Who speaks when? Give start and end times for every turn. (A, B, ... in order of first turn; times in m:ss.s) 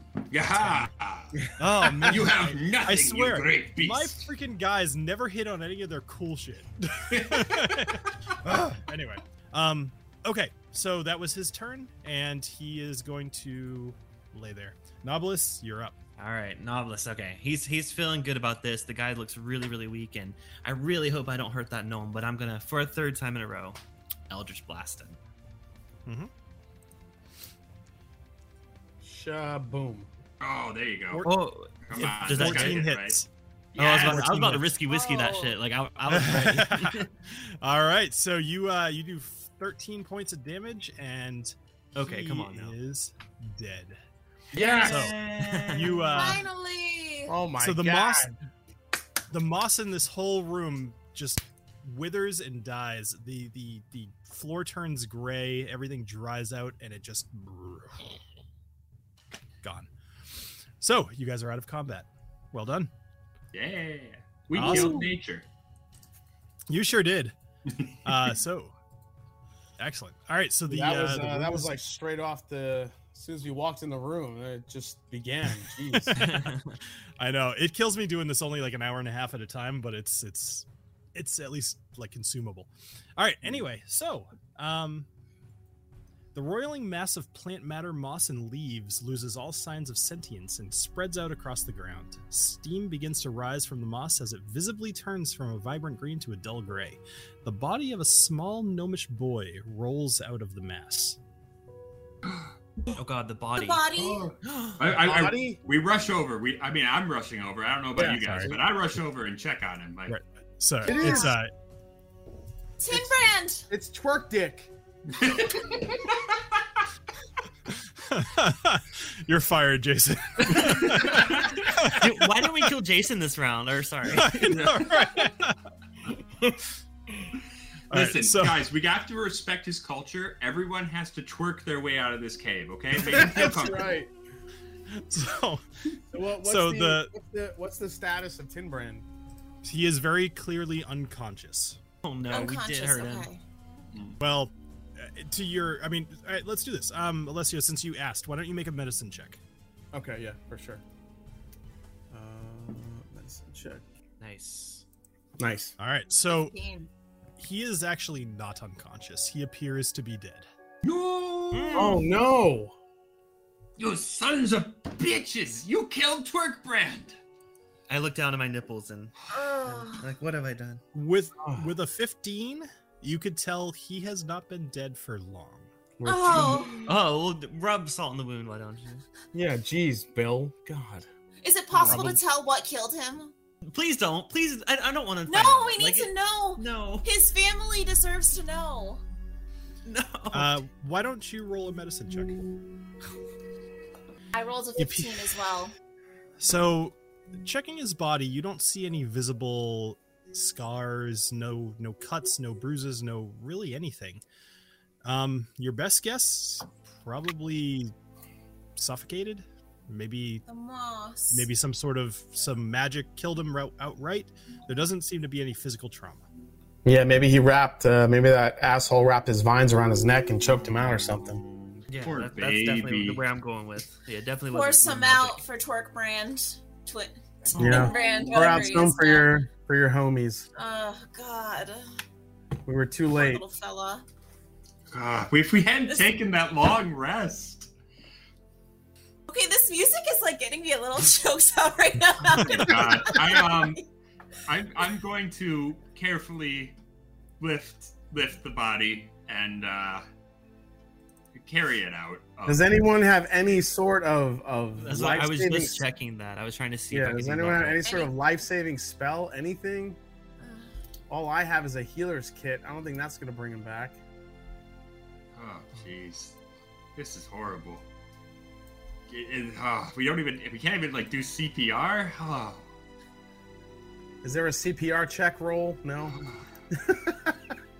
0:00.3-0:01.5 A
0:00.5-0:00.9 B
0:01.6-0:16.0 B
0:02.0-0:04.2 A
0:07.1-0:08.0 A
0:16.2-0:23.8 C
0:24.3-0:25.2 C
0:26.0-0:26.3 B
0:29.0-0:30.1 D
0:30.4-0:31.3 A
0:31.1-0:33.3 B
0:31.2-0:32.9 C
0:31.8-0:33.2 A
0:33.7-0:34.6 A
0:33.8-0:37.1 C
0:34.0-0:34.7 B
0:34.9-0:35.6 E
0:36.1-0:44.0 B
0:42.0-0:42.8 C
0:44.5-0:45.2 D
0:44.6-0:45.9 A
0:44.7-0:46.2 C
0:44.8-0:46.4 B
0:46.1-0:47.3 E
0:47.3-0:48.3 D
0:47.6-0:48.3 B
0:49.3-0:58.0 B
0:59.6-1:02.9 B
1:03.5-1:05.4 A
1:04.6-1:05.0 B
1:06.7-1:07.3 B
1:07.7-1:08.1 A
1:08.0-1:08.7 B
1:09.8-1:11.8 B
1:10.7-1:16.1 D
1:15.9-1:16.6 B
1:16.1-1:16.8 C
1:17.2-1:25.1 B
1:26.3-1:41.2 B
1:42.2-1:42.5 A
1:42.9-1:43.9 C
1:43.5-1:44.3 E
1:44.0-1:50.2 A
1:44.4-1:44.8 C
1:44.9-1:45.6 D
1:48.0-1:48.6 D
1:48.1-1:48.6 B
1:50.1-1:51.5 B
1:50.8-1:51.3 D
1:50.8-1:51.3 E
1:52.8-1:53.7 E
1:52.9-1:54.7 D
1:55.1-1:56.4 A
1:57.7-2:02.5 B
2:00.5-2:04.9 C
2:00.8-2:01.7 A
2:04.1-2:05.6 B
2:04.2-2:05.0 A
2:07.9-2:14.0 A
2:07.9-2:08.7 B
2:13.0-2:14.1 D
2:14.9-2:15.6 B
2:16.1-2:19.0 D
2:16.4-2:17.1 B
2:19.6-2:21.8 B
2:22.0-2:23.3 C
2:22.3-2:23.4 E
2:23.9-2:24.2 A
2:24.2-2:29.4 B
2:29.9-2:30.8 D
2:32.1-2:33.8 D
2:34.2-2:34.8 C
2:35.4-2:35.7 D
2:35.8-2:36.6 B
2:36.3-2:36.9 E
2:37.4-2:40.5 B
2:40.8-2:42.0 A
2:41.5-2:42.0 B
2:41.7-2:42.7 D
2:43.8-2:47.2 A
2:47.9-2:50.8 C
2:49.3-2:50.0 E
2:50.9-2:55.7 B
2:51.4-2:51.7 D
2:56.0-2:56.8 D
2:56.0-2:56.9 E
2:56.8-2:59.0 C
2:59.3-3:01.1 D
3:01.4-3:03.3 E
3:01.8-3:02.2 B
3:01.9-3:02.1 D
3:03.6-3:07.1 C
3:05.3-3:09.0 E
3:09.8-3:10.6 C
3:10.3-3:12.4 B
3:14.3-3:15.7 E
3:14.8-3:15.3 B
3:16.4-3:24.2 B
3:25.0-3:27.9 B
3:28.8-3:30.4 B
3:30.5-3:31.5 E
3:31.3-3:36.3 B
3:36.8-3:41.4 D
3:40.7-3:43.2 A
3:41.9-3:45.4 C
3:44.5-3:49.3 E
3:47.6-3:50.5 D
3:50.6-3:51.9 E
3:52.7-3:53.4 D
3:53.1-3:54.0 E
3:54.9-3:57.7 A
3:59.3-4:03.8 E
4:02.3-4:03.8 A
4:04.4-4:06.8 A
4:07.4-4:10.0 A
4:11.3-4:12.7 A
4:12.4-4:15.8 D
4:14.8-4:17.8 C
4:16.9-4:20.0 D
4:17.8-4:18.1 E
4:20.4-4:20.7 E
4:21.1-4:24.0 D
4:25.3-4:26.4 A
4:27.0-4:27.8 A
4:29.1-4:32.7 A
4:34.2-4:37.6 D
4:36.1-4:36.4 A